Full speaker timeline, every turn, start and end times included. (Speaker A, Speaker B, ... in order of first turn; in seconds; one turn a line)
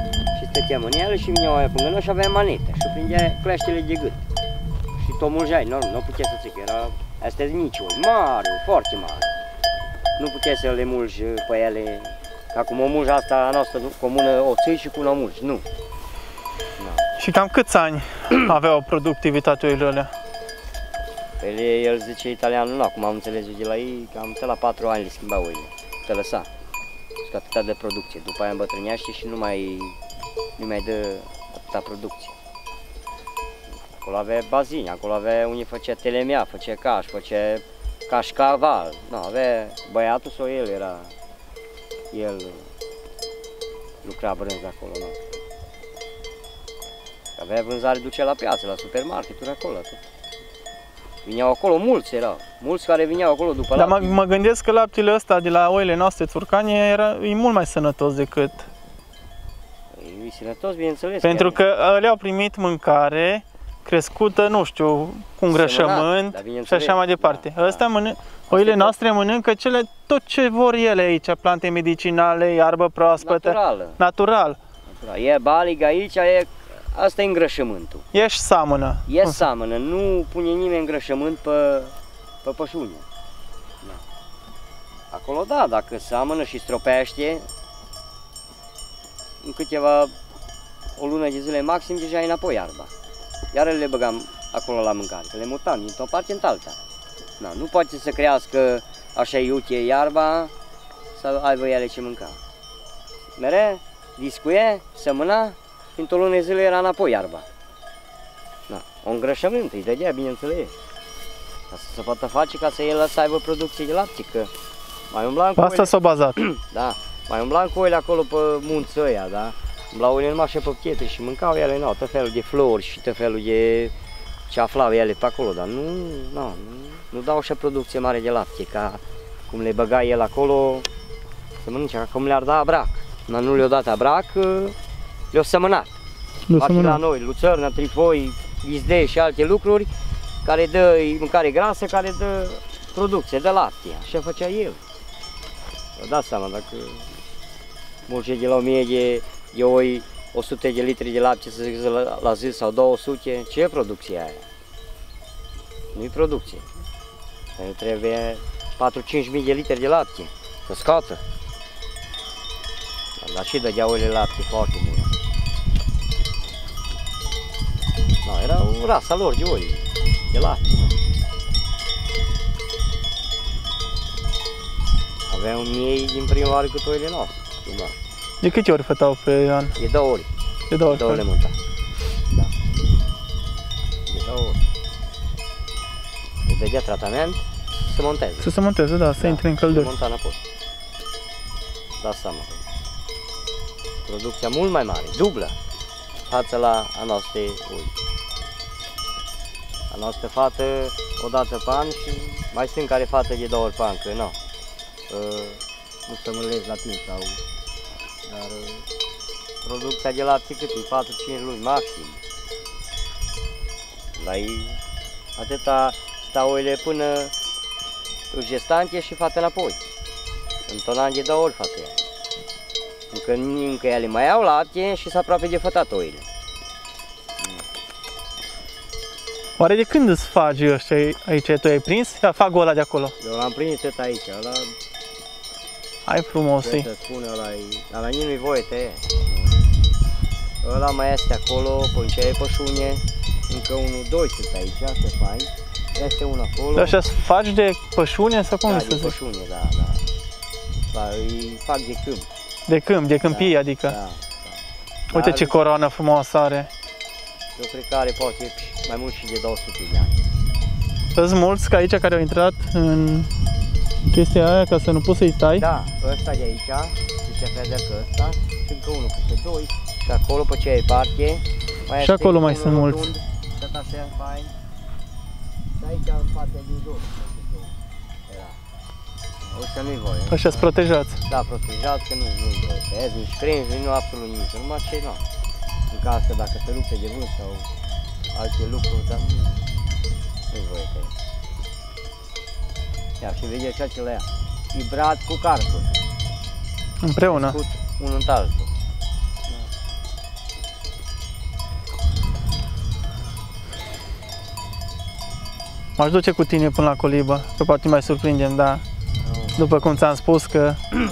Speaker A: 0.3-4.2
Speaker A: 5.0-9.3
Speaker A: 10.2-15.7
Speaker A: 16.8-17.1
Speaker B: 17.2-20.1
Speaker A: 21.4-26.5
Speaker A: 27.2-30.0
Speaker A: 30.6-32.3
Speaker A: 34.0-41.1
Speaker A: 42.1-42.7
Speaker A: 44.0-45.2
Speaker A: 47.4-50.0
Speaker A: 51.2-54.2
Speaker B: 53.7-58.7
Speaker A: 59.9-61.6
Speaker B: 61.2-74.6
Speaker A: 65.5-67.8
Speaker A: 68.5-69.0
Speaker A: 73.2-74.0
Speaker A: 74.9-78.1
Speaker B: 78.1-79.4
Speaker A: 79.1-83.0
Speaker A: 85.1-87.4
Speaker A: 89.4-90.1
Speaker A: 91.0-92.9
Speaker A: 93.5-96.8
Speaker A: 97.4-100.5
Speaker A: 101.2-102.4
Speaker A: 103.4-107.5
Speaker A: 108.7-110.7
Speaker A: 111.7-114.5
Speaker A: 115.1-123.9
Speaker B: 115.6-116.4
Speaker A: 124.5-130.9
Speaker A: 131.6-134.7
Speaker A: 135.3-135.9
Speaker B: 136.5-137.0
Speaker A: 136.5-139.9
Speaker A: 140.4-144.8
Speaker A: 146.0-147.1
Speaker A: 148.1-154.4
Speaker A: 155.9-156.7
Speaker A: 157.6-161.2
Speaker A: 163.2-165.1
Speaker A: 168.2-170.9
Speaker A: 175.3-178.0
Speaker B: 178.4-179.8
Speaker A: 179.8-180.3
Speaker B: 180.7-181.2
Speaker A: 180.8-181.6
Speaker A: 184.1-184.6
Speaker A: 186.4-188.5
Speaker B: 188.4-189.9
Speaker A: 189.2-190.4
Speaker A: 192.0-192.6
Speaker A: 194.1-195.5
Speaker A: 196.3-197.9
Speaker A: 199.9-204.4
Speaker A: 205.1-207.4
Speaker A: 208.3-208.9
Speaker A: 209.6-212.2
Speaker A: 214.2-214.8
Speaker A: 215.4-217.3
Speaker A: 218.3-219.8
Speaker A: 220.7-222.0
Speaker A: 223.1-226.2
Speaker A: 227.4-227.6
Speaker B: 229.6-233.1
Speaker A: 233.2-234.7
Speaker B: 236.1-236.9
Speaker A: 236.6-239.6
Speaker A: 240.6-247.0
Speaker B: 246.7-249.1
Speaker A: 248.6-250.1
Speaker A: 250.9-252.3
Speaker B: 252.7-253.9
Speaker A: 253.2-255.5
Speaker B: 255.1-256.7
Speaker A: 257.6-260.2
Speaker B: 261.1-263.3
Speaker B: 264.1-265.6
Speaker A: 265.6-274.5
Speaker B: 272.0-273.1
Speaker A: 275.8-277.7
Speaker A: 278.3-278.6
Speaker A: 279.5-280.7
Speaker B: 280.3-281.2
Speaker A: 281.2-285.2
Speaker A: 285.9-287.7
Speaker A: 288.3-289.6
Speaker A: 290.5-291.1
Speaker A: 293.2-296.0
Speaker B: 297.0-297.6
Speaker A: 297.3-298.7
Speaker B: 306.0-308.8
Speaker A: 309.2-309.6
Speaker B: 309.6-310.9